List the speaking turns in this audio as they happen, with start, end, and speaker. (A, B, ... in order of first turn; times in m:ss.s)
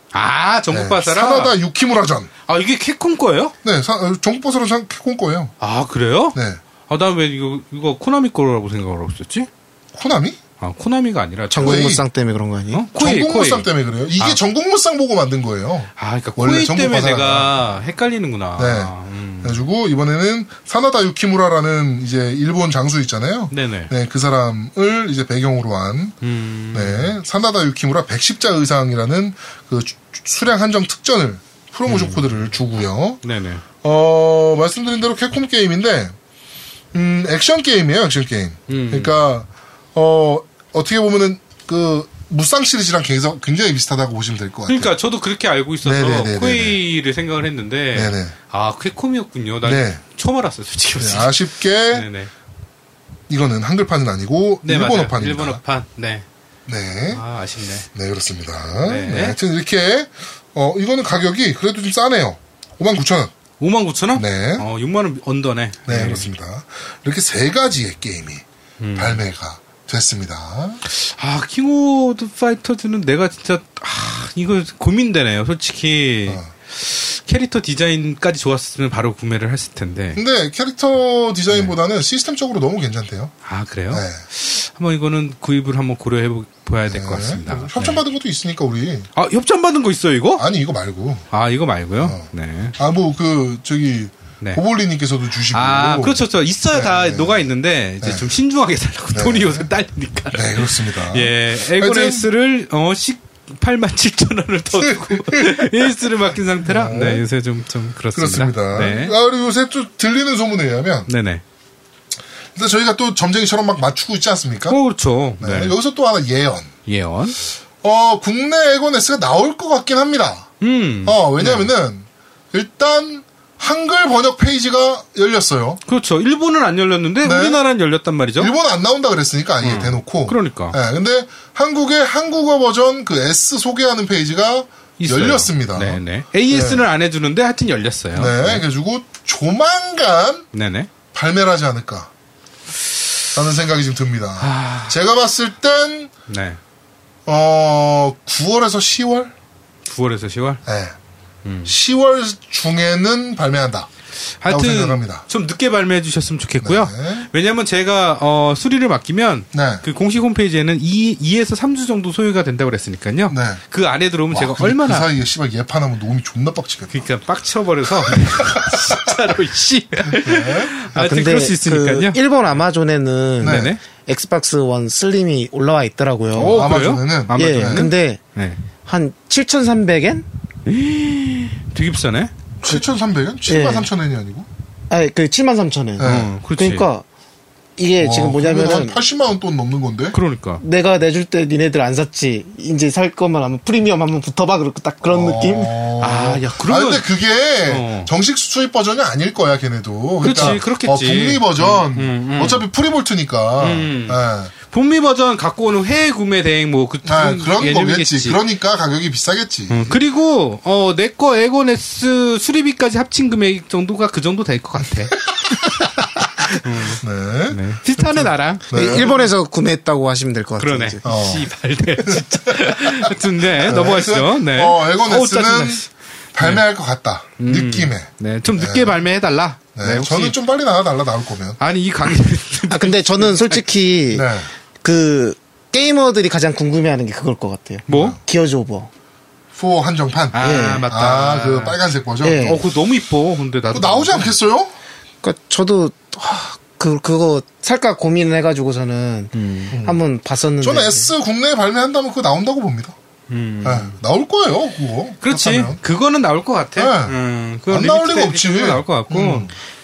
0:00.1-0:01.6 A
0:00.7-0:02.3 B
0:02.5-0:03.5 A
0:03.6-0:05.5 B
0:05.6-0:06.4 A
0:06.3-0:06.6 B
0:06.9-0:09.5 A
0:09.9-0:10.4 B
0:10.6-0:12.0 A
0:11.5-0:12.8 C
0:11.6-0:12.0 B
0:12.7-0:14.4 A
0:13.0-0:17.6 B
0:16.0-0:19.6 A
0:18.6-0:26.2 B
0:23.5-0:23.9 A
0:26.2-0:27.2 A
0:26.7-0:33.2 B
0:31.9-0:32.2 A
0:33.2-0:33.6 A
0:33.8-0:36.2 B
0:36.9-0:44.9 B
0:38.7-0:39.1 A
0:44.7-0:51.3 A
0:45.8-0:46.8 B
0:47.9-0:48.3 B
0:49.6-0:50.0 B
0:51.0-0:52.1 B
0:51.9-0:52.3 A
0:53.3-0:55.6 B
0:54.6-0:56.2 A
0:56.7-0:57.2 B
0:57.1-0:57.9 A
0:57.9-1:03.3 B
0:58.8-0:59.4 A
1:03.6-1:06.3 A
1:04.2-1:04.7 B
1:05.9-1:08.4 B
1:08.8-1:09.2 A
1:09.0-1:10.8 B
1:10.9-1:20.2 A
1:20.2-1:23.3 B
1:23.4-1:28.0 A
1:23.9-1:24.2 B
1:26.9-1:29.1 B
1:29.2-1:30.4 A
1:30.4-1:31.3 B
1:31.3-1:32.8 A
1:32.0-1:36.2 B
1:35.5-1:49.2 A
1:36.7-1:37.4 B
1:39.1-1:39.7 B
1:40.3-1:42.3 B
1:44.7-1:45.9 B
1:46.6-1:47.2 B
1:48.1-1:51.1 B
1:51.1-1:51.4 A
1:52.6-1:54.8 B
1:54.7-1:55.8 A
1:55.4-1:56.7 B
1:56.9-1:57.4 A
1:57.8-2:00.5 B
2:00.6-2:01.7 A
2:01.0-2:05.8 B
2:05.9-2:08.5 A
2:07.2-2:07.6 B
2:08.4-2:16.9 B
2:09.6-2:10.8 A
2:15.0-2:18.6 A
2:18.1-2:20.5 B
2:20.5-2:20.9 A
2:21.1-2:22.1 B
2:23.4-2:26.1 B
2:24.4-2:25.0 A
2:26.3-2:26.6 A
2:27.3-2:29.3 B
2:29.9-2:30.6 A
2:30.6-2:31.0 B
2:31.4-2:31.7 A
2:31.6-2:33.9 B
2:34.4-2:45.1 A
2:34.5-2:35.2 B
2:36.6-2:37.3 B
2:39.5-2:39.8 B
2:43.3-2:43.6 B
2:44.3-2:47.0 B
2:46.9-2:52.2 A
2:48.0-2:49.2 B
2:50.1-2:50.7 B
2:50.9-2:56.7 C
2:53.4-2:53.7 B
2:53.4-2:53.8 A
2:56.4-2:57.9 B
2:56.4-2:58.6 A
2:57.4-2:58.2 C
2:58.8-3:00.3 C
3:00.7-3:02.3 A
3:02.6-3:04.5 B
3:03.5-3:03.9 C
3:04.9-3:07.1 C
3:06.0-3:06.4 B
3:06.0-3:06.9 A
3:07.8-3:09.0 C
3:08.0-3:10.2 B
3:10.1-3:10.6 A
3:10.6-3:15.8 C
3:15.1-3:24.5 B
3:16.0-3:17.0 A
3:17.6-3:18.1 A
3:20.2-3:22.6 A
3:23.6-3:28.4 A
3:27.0-3:30.0 B
3:29.7-3:35.7 A
3:36.5-3:39.3 A
3:37.0-3:39.1 B
3:38.7-3:41.1 C
3:40.6-3:46.6 A
3:41.0-3:41.5 B
3:42.0-3:45.8 B
3:46.3-3:49.0 B
3:47.4-3:50.4 A
3:49.8-3:51.6 B
3:51.6-3:53.6 A
3:52.7-3:54.3 C
3:54.1-3:54.5 B
3:54.8-3:58.9 C
3:57.9-3:58.2 A
3:57.9-3:58.2 B
3:59.6-4:02.6 B
4:00.3-4:04.3 A
4:00.4-4:00.9 C
4:02.2-4:02.6 C
4:03.7-4:04.8 B
4:05.2-4:11.1 C
4:09.7-4:10.0 B
4:10.6-4:13.0 B
4:13.3-4:14.0 A
4:13.6-4:15.8 B
4:15.2-4:19.5 A
4:16.8-4:17.2 B
4:17.7-4:19.5 B